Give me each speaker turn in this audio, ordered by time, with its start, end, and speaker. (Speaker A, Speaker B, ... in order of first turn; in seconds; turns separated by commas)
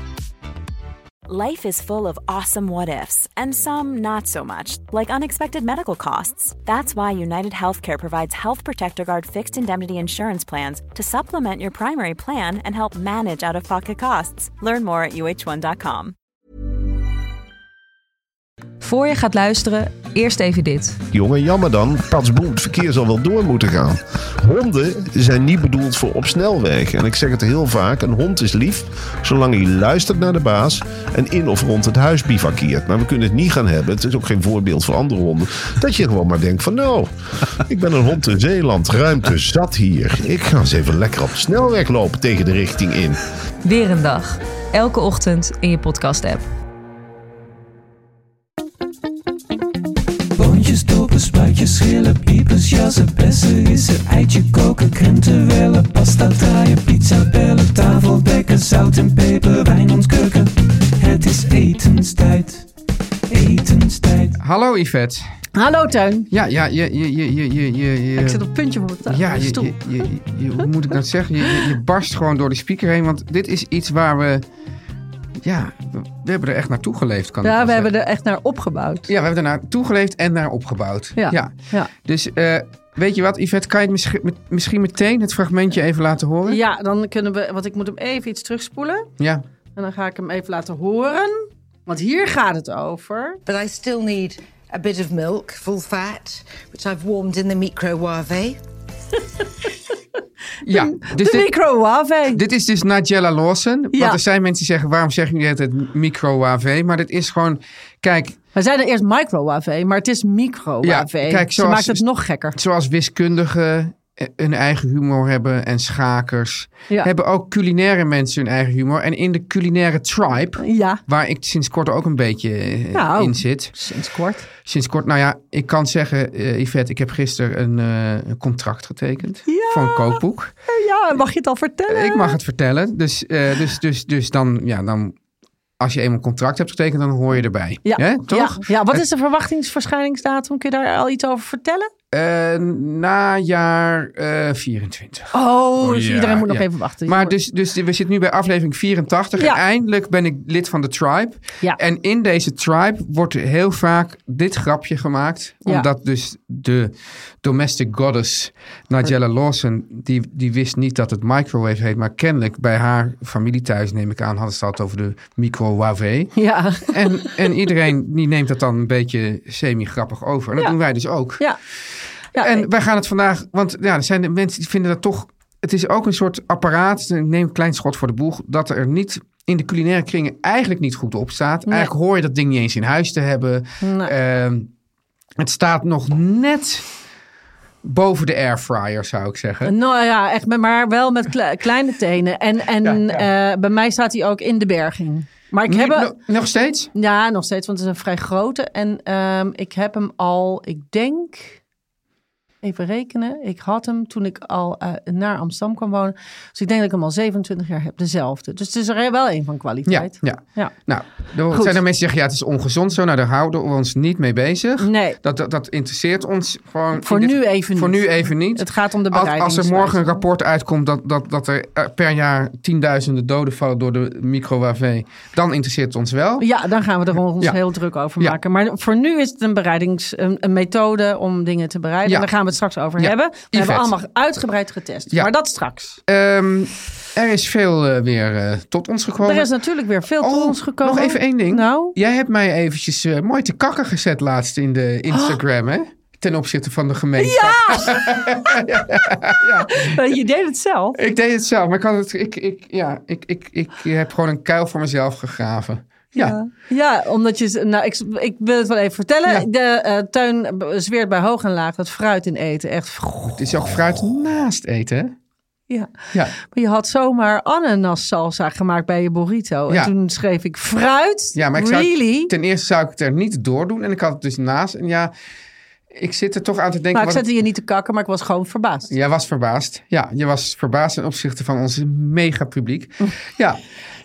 Speaker A: 1.3-16.1, Speaker B: 18.8-21.0, Speaker C: 21.1-43.2, Speaker B: 43.6-46.4, Speaker D: 50.4-62.7, Speaker D: 63.3-64.4, Speaker E: 64.4-65.2, Speaker F: 65.5-66.3, Speaker E: 66.3-68.4, Speaker F: 68.2-70.0, Speaker E: 69.0-74.5, Speaker F: 71.4-71.7, Speaker E: 75.4-77.9, Speaker F: 77.4-79.1, Speaker E: 79.1-86.6, Speaker F: 81.2-81.9, Speaker F: 86.5-89.1, Speaker E: 89.2-89.4, Speaker F: 89.8-93.4, Speaker G: 93.5-98.6, Speaker E: 100.6-101.5, Speaker F: 100.7-102.4, Speaker E: 102.3-108.4, Speaker F: 103.9-104.2, Speaker F: 108.5-112.6, Speaker E: 110.8-112.0, Speaker E: 112.5-123.7, Speaker F: 120.6-121.0, Speaker F: 122.9-124.5, Speaker E: 124.6-130.5, Speaker F: 129.5-132.4, Speaker E: 131.9-135.2, Speaker E: 135.8-139.0, Speaker F: 137.8-141.9, Speaker E: 142.1-171.5, Speaker F: 145.3-147.3, Speaker F: 166.3-167.5, Speaker F: 172.3-172.7, Speaker E: 172.3-184.7, Speaker F: 181.7-181.9, Speaker F: 183.8-184.1, Speaker E: 185.4-186.9, Speaker E: 187.8-189.7, Speaker F: 189.6-196.1, Speaker E: 192.8-193.2, Speaker E: 195.7-196.9, Speaker F: 196.9-201.6, Speaker F: 202.6-210.7, Speaker E: 209.9-226.5, Speaker F: 211.5-211.8, Speaker F: 214.8-215.2, Speaker F: 216.9-220.2, Speaker F: 226.4-236.0, Speaker E: 233.0-233.9, Speaker E: 236.1-239.5, Speaker F: 239.2-241.9, Speaker E: 240.2-250.1, Speaker F: 245.1-245.4, Speaker F: 247.2-248.6, Speaker F: 249.6-251.0, Speaker E: 250.9-256.4, Speaker F: 256.1-263.4, Speaker E: 263.4-265.1, Speaker F: 265.7-272.3, Speaker E: 271.3-275.1, Speaker E: 275.9-277.2, Speaker F: 276.9-278.9, Speaker E: 278.9-283.6